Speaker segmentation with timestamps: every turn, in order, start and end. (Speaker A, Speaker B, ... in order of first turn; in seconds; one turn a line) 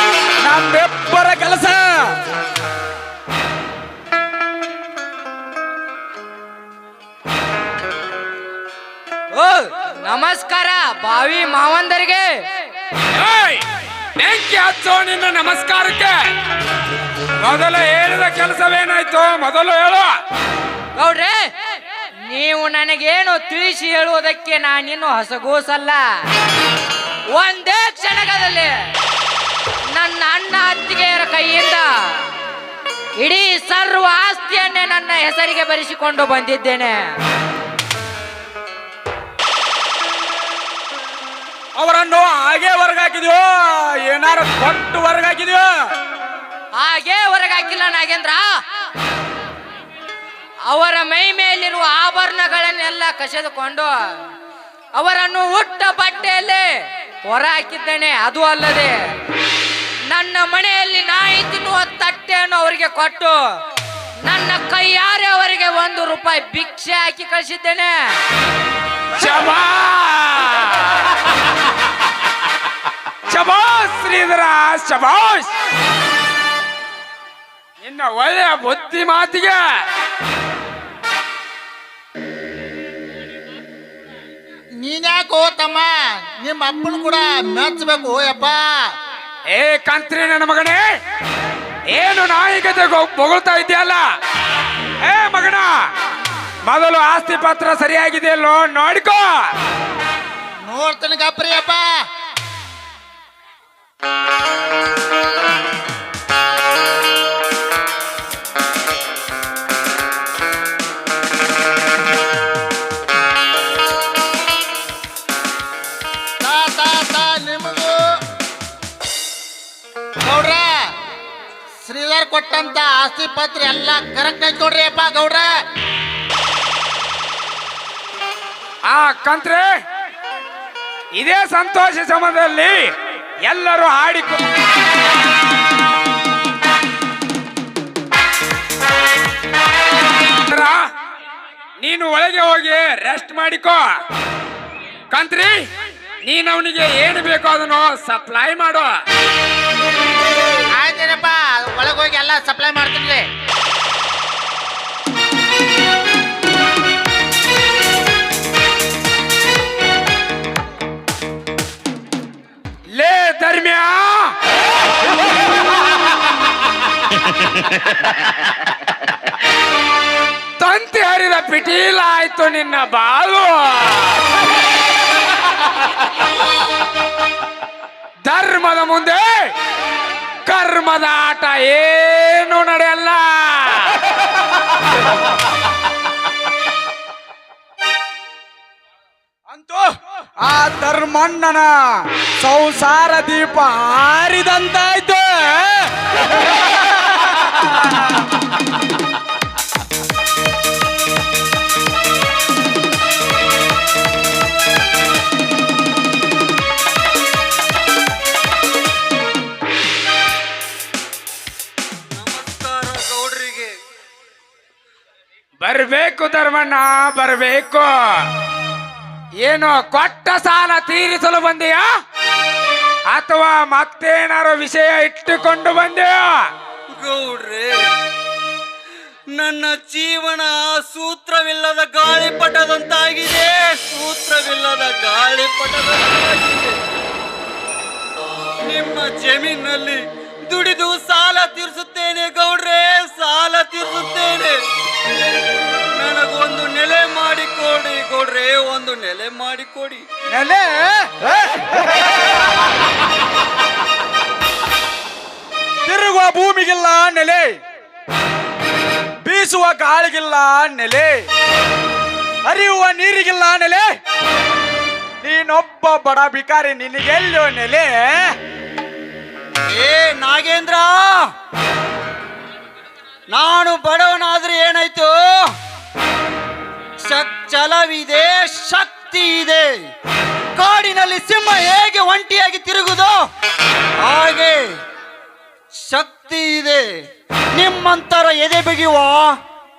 Speaker A: 0.4-2.1
Speaker B: 9.3-12.3
Speaker C: 13.1-13.6
Speaker C: 14.2-16.2
Speaker C: 17.4-20.1
Speaker B: 20.9-21.4
Speaker B: 22.3-26.0
Speaker B: 27.3-28.7
Speaker B: 29.9-31.9
Speaker B: 33.2-37.0
Speaker A: 41.8-45.7
Speaker B: 46.7-48.5
Speaker B: 50.7-53.9
Speaker B: 55.0-56.6
Speaker B: 57.2-59.0
Speaker B: 60.1-63.4
Speaker B: 64.2-67.9
Speaker C: 69.1-71.3
Speaker C: 73.3-75.5
Speaker C: 77.8-79.6
Speaker D: 84.8-88.8
Speaker C: 89.5-90.8
Speaker C: 91.9-94.0
Speaker C: 95.0-95.7
Speaker C: 96.6-99.3
Speaker D: 100.6-101.9
Speaker D: 116.4-118.0
Speaker D: 120.2-120.8
Speaker D: 121.8-125.5
Speaker C: 128.9-129.7
Speaker C: 131.2-132.9
Speaker C: 133.4-134.4
Speaker C: 140.4-140.8
Speaker C: 141.8-143.8
Speaker C: 145.1-145.6
Speaker C: 146.2-148.9
Speaker D: 150.7-153.3
Speaker C: 162.9-164.3
Speaker C: 170.6-174.3
Speaker C: 178.2-179.5
Speaker C: 180.4-184.0
Speaker A: 189.5-191.7
Speaker A: 192.4-195.9
Speaker A: 196.6-196.9
Speaker E: 212.2-213.7
Speaker C: 215.6-218.3
Speaker C: 219.4-221.8
Speaker C: 223.1-226.3
Speaker E: 226.9-227.8
Speaker E: 229.3-236.8
Speaker E: 238.6-244.6
Speaker E: 246.0-250.0
Speaker A: 250.3-251.9
Speaker A: 255.8-257.6
Speaker A: 259.2-261.3
Speaker A: 262.4-263.9
Speaker A: 265.2-268.4
Speaker E: 269.7-271.2
Speaker E: 273.3-275.5
Speaker E: 277.0-279.7
Speaker E: 280.6-283.1
Speaker E: 284.0-284.6
Speaker E: 285.8-286.9
Speaker E: 287.6-289.3